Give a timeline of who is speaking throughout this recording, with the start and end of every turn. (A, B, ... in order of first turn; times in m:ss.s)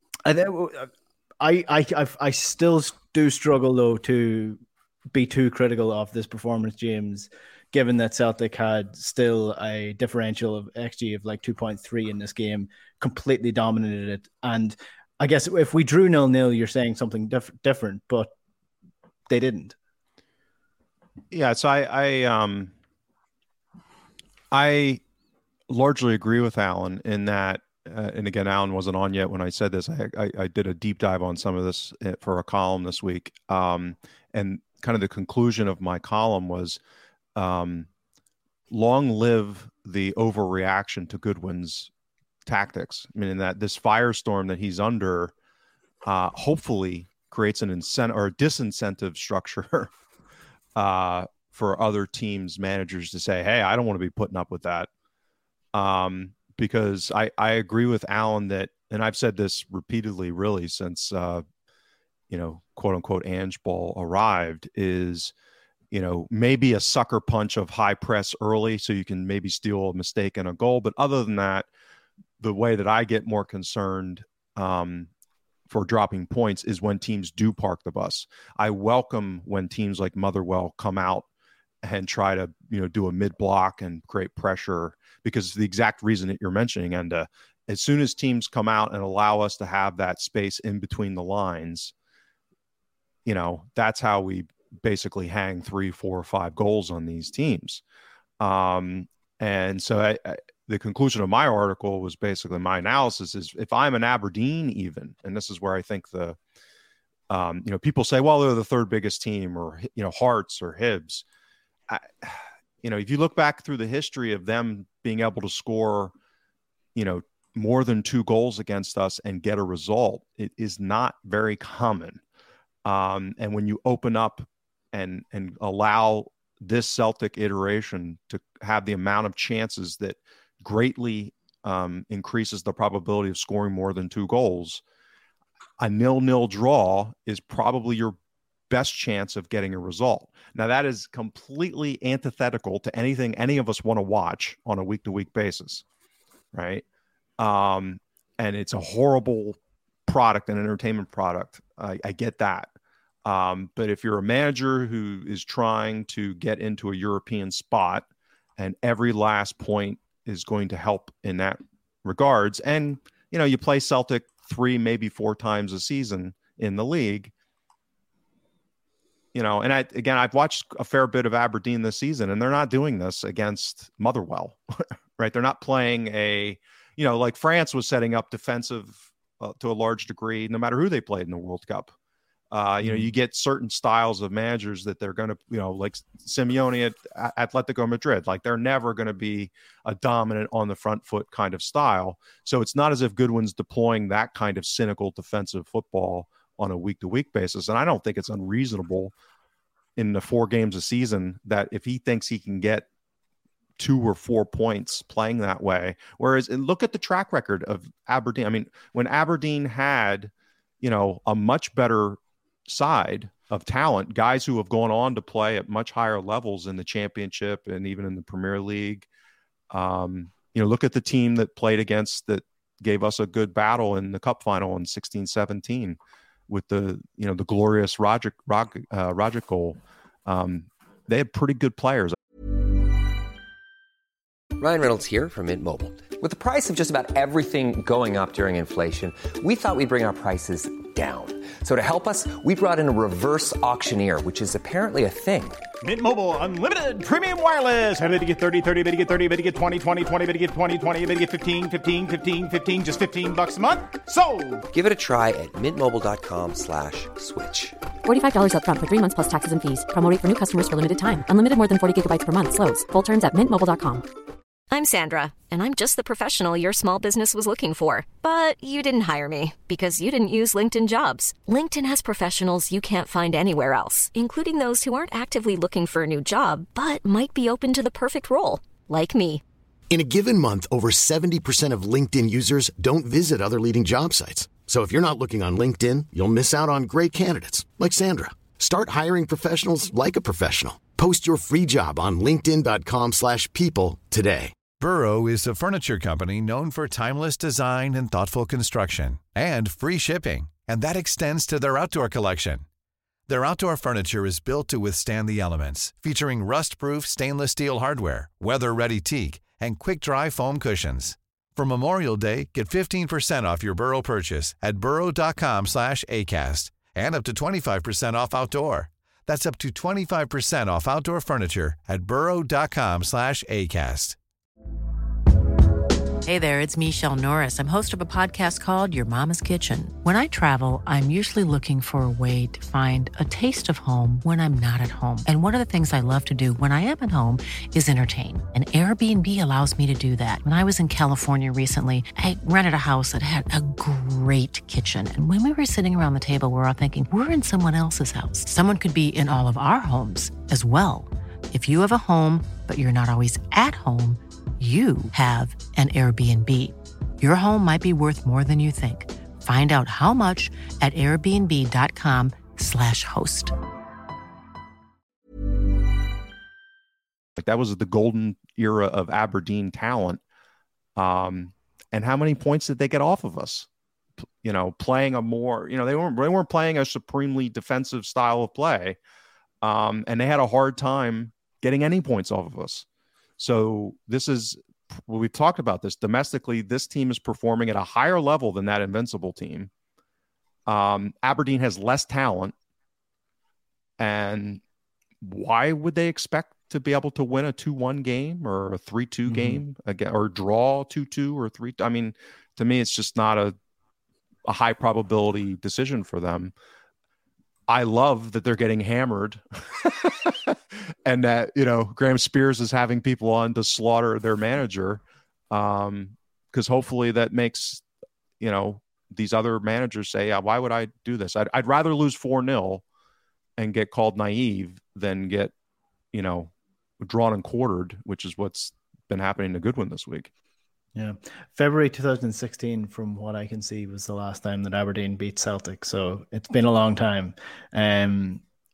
0:00.2-0:18.3 A
0:19.3-0:19.8 A
0:21.3-0:22.7 B
0:24.5-0:25.0 B
0:25.7-0:36.8 B
0:37.4-0:37.9 B
0:38.7-0:41.9 B
0:42.5-0:45.3 B
0:46.0-0:49.9 B
0:50.8-0:54.9 B
0:55.7-1:01.4 B
1:02.3-1:05.3 B
1:05.9-1:11.7 B
1:12.4-1:15.1 B
1:15.7-1:21.3 B
1:21.8-1:31.9 B
1:33.2-1:37.8 B
1:38.4-1:46.4 B
1:47.3-1:51.2 B
1:51.9-1:56.1 B
1:57.0-2:02.2 B
2:02.8-2:14.8 B
2:15.8-2:18.2 B
2:18.7-2:25.8 B
2:26.5-2:26.8 B
2:27.4-2:32.7 B
2:33.2-2:38.0 B
2:38.6-2:47.3 B
2:49.3-2:54.6 B
2:55.2-3:01.9 B
3:02.5-3:19.1 B
3:02.8-3:03.1 A
3:20.0-3:22.9 B
3:23.8-3:30.3 B
3:30.8-3:39.1 B
3:39.7-3:46.0 B
3:46.5-3:52.2 B
3:54.6-4:05.6 C
4:05.8-4:14.6 D
4:14.7-4:17.8 C
4:18.0-4:24.0 E
4:24.7-4:39.4 F
4:39.9-4:54.6 G
4:54.8-5:02.6 H
5:03.3-5:24.2 H
5:26.2-6:03.6 I
6:07.4-6:10.2 B
6:11.0-6:13.7 B
6:14.4-6:19.0 B
6:19.6-6:22.9 B
6:23.4-6:29.7 B
6:30.7-6:32.5 B
6:34.0-6:34.6 B
6:35.2-6:43.6 B
6:39.3-6:39.6 A
6:44.4-6:46.5 B
6:47.7-6:57.8 B
6:58.4-7:02.8 B
7:03.6-7:05.5 B
7:06.1-7:10.3 B
7:11.0-7:18.4 A